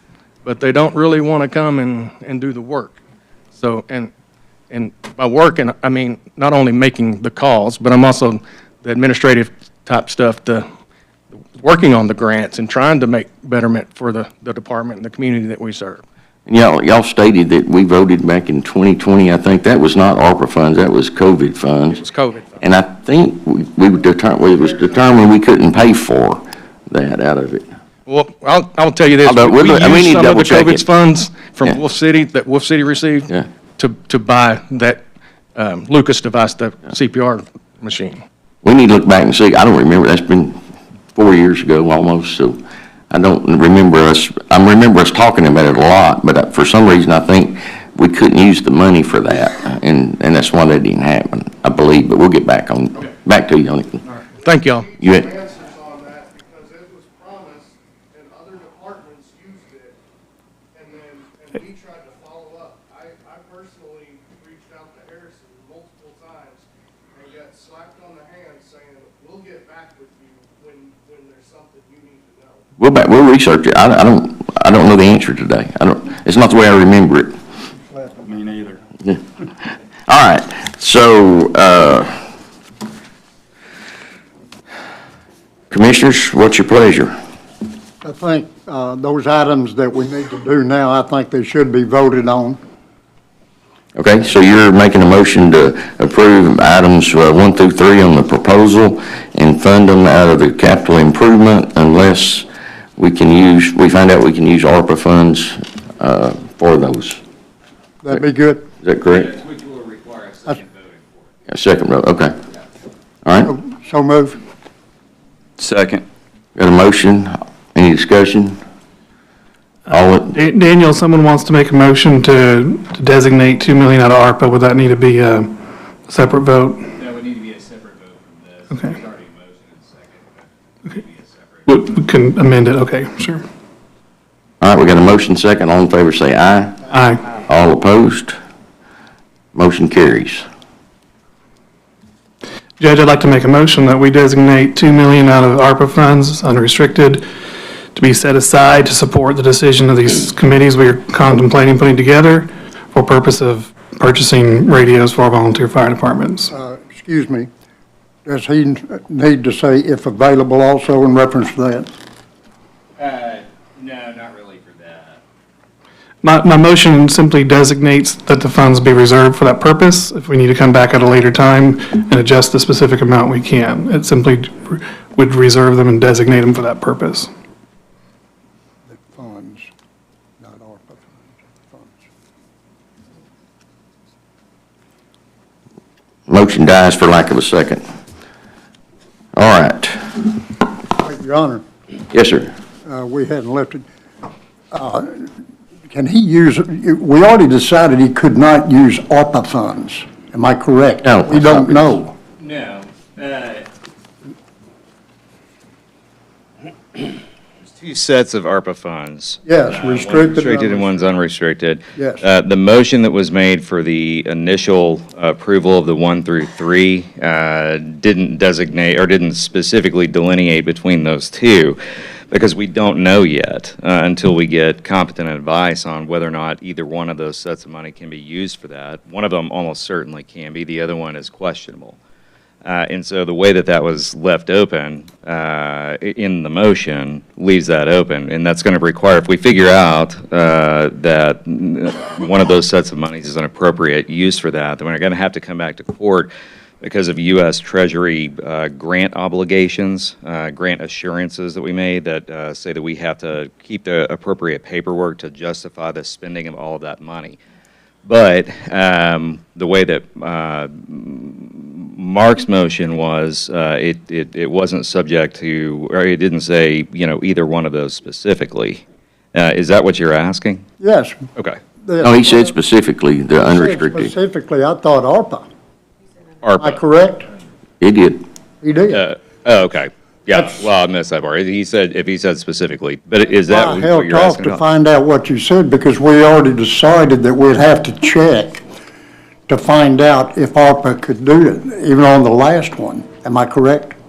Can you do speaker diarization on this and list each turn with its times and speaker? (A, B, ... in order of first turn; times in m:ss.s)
0:00.4-0:03.0 A
0:03.5-0:04.1 A
0:04.7-0:10.6 A
0:11.6-0:16.0 A
0:16.5-0:22.0 B
0:22.0-0:22.6 A
0:22.6-0:27.6 B
0:28.0-0:35.0 A
0:29.2-0:30.9 B
0:35.5-0:38.2 A
0:38.6-0:40.6 B
0:41.1-0:42.6 B
0:43.1-0:54.0 B
0:54.4-1:00.0 C
0:54.4-0:54.8 A
0:55.0-0:55.3 B
1:00.7-1:12.6 C
1:12.8-1:17.4 B
1:17.9-1:18.7 D
1:20.1-1:22.2 B
1:25.7-1:27.1 B
1:28.0-1:32.6 D
1:34.0-1:42.4 B
1:43.0-1:47.2 B
1:48.0-1:48.7 D
1:48.8-1:49.3 B
1:49.1-1:51.3 E
1:51.5-1:52.4 B
1:53.2-1:53.5 B
1:53.4-1:54.4 D
1:55.6-1:56.0 E
1:56.6-1:58.6 B
1:59.9-2:06.9 F
1:59.9-2:00.3 B
2:07.0-2:11.8 E
2:11.7-2:13.4 F
2:14.6-2:16.8 B
2:16.9-2:17.2 F
2:17.4-2:18.4 B
2:19.5-2:20.4 B
2:22.8-2:27.2 F
2:27.9-2:36.5 F
2:36.5-2:37.5 D
2:38.2-2:41.9 D
2:43.0-2:45.2 E
2:46.2-2:57.3 F
2:58.9-2:59.7 D
3:00.4-3:02.0 D
3:06.3-3:07.8 B
3:09.3-3:10.1 B
3:11.0-3:11.6 D
3:12.1-3:12.5 B
3:12.8-3:13.8 D
3:14.7-3:15.3 D
3:15.9-3:22.1 D
3:21.0-3:22.0 B
3:22.4-3:23.7 E
3:27.6-3:41.8 E
3:29.4-3:31.0 D
3:32.0-3:32.2 D
3:42.3-3:52.0 E
3:52.6-4:06.3 E
4:06.8-4:17.4 E
4:18.0-4:28.8 E
4:29.3-4:30.6 E
4:30.8-4:31.2 D
4:31.8-4:32.5 D
4:32.0-4:34.1 B
4:33.5-4:35.4 D
4:36.4-4:36.8 E
4:36.6-4:37.3 D
4:37.8-4:38.2 B
4:38.6-4:39.0 D
4:38.9-4:44.6 E
4:43.4-4:48.6 D
4:49.5-4:54.0 D